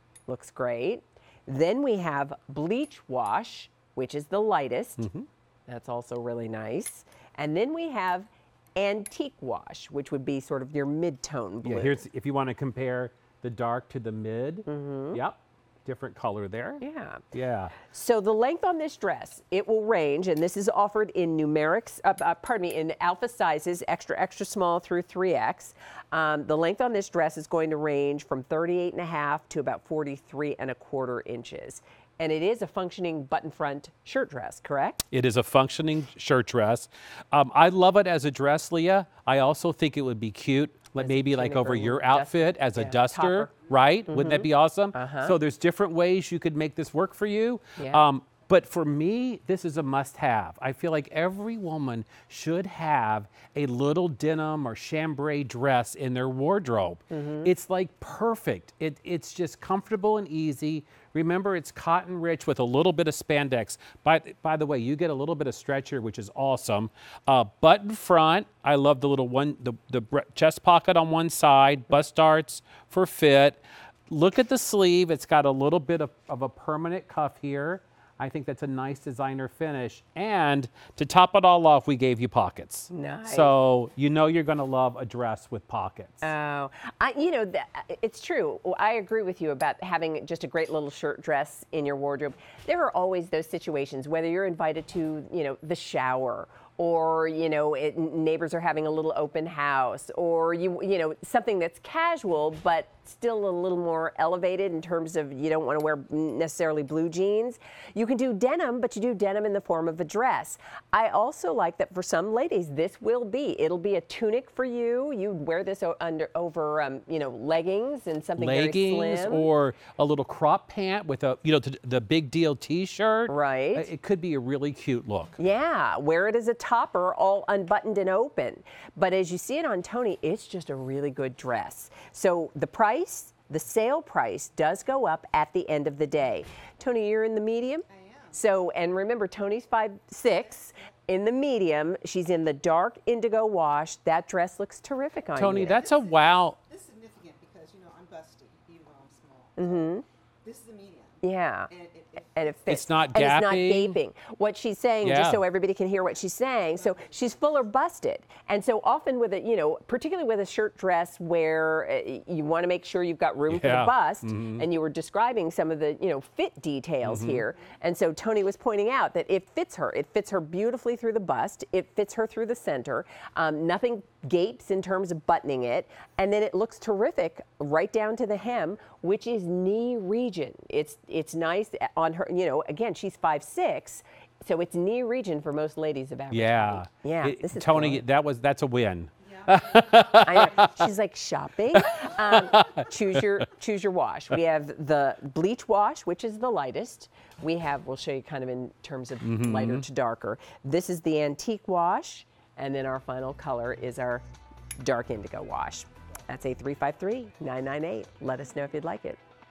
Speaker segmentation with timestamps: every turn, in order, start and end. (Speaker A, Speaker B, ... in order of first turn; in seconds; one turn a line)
Speaker A: 0.3-5.1
Speaker B: 5.0-5.3
Speaker A: 5.7-12.0
Speaker B: 11.6-16.8
Speaker A: 14.7-15.2
Speaker A: 16.8-17.2
Speaker B: 17.3-17.7
Speaker A: 17.8-35.0
Speaker B: 35.1-86.3
Speaker A: 41.0-43.5
Speaker A: 44.1-45.3
Speaker A: 47.8-48.0
Speaker A: 57.1-57.5
Speaker A: 82.9-83.5
Speaker A: 86.2-119.5
Speaker B: 118.4-125.3
Speaker A: 123.3-123.9
Speaker A: 125.4-145.8
Speaker C: 137.9-138.3
Speaker B: 145.3-146.6
Speaker C: 145.8-149.9
Speaker A: 149.6-150.0
Speaker C: 150.4-152.5
Speaker A: 151.2-151.7
Speaker A: 152.3-188.0
Speaker B: 152.7-154.0
Speaker B: 155.0-155.4
Speaker B: 163.5-164.6
Speaker B: 167.0-167.4
Speaker B: 186.3-190.7
Speaker C: 189.4-190.3
Speaker A: 190.2-204.2
Speaker B: 191.7-193.4
Speaker B: 199.2-199.8
Speaker A: 204.8-209.2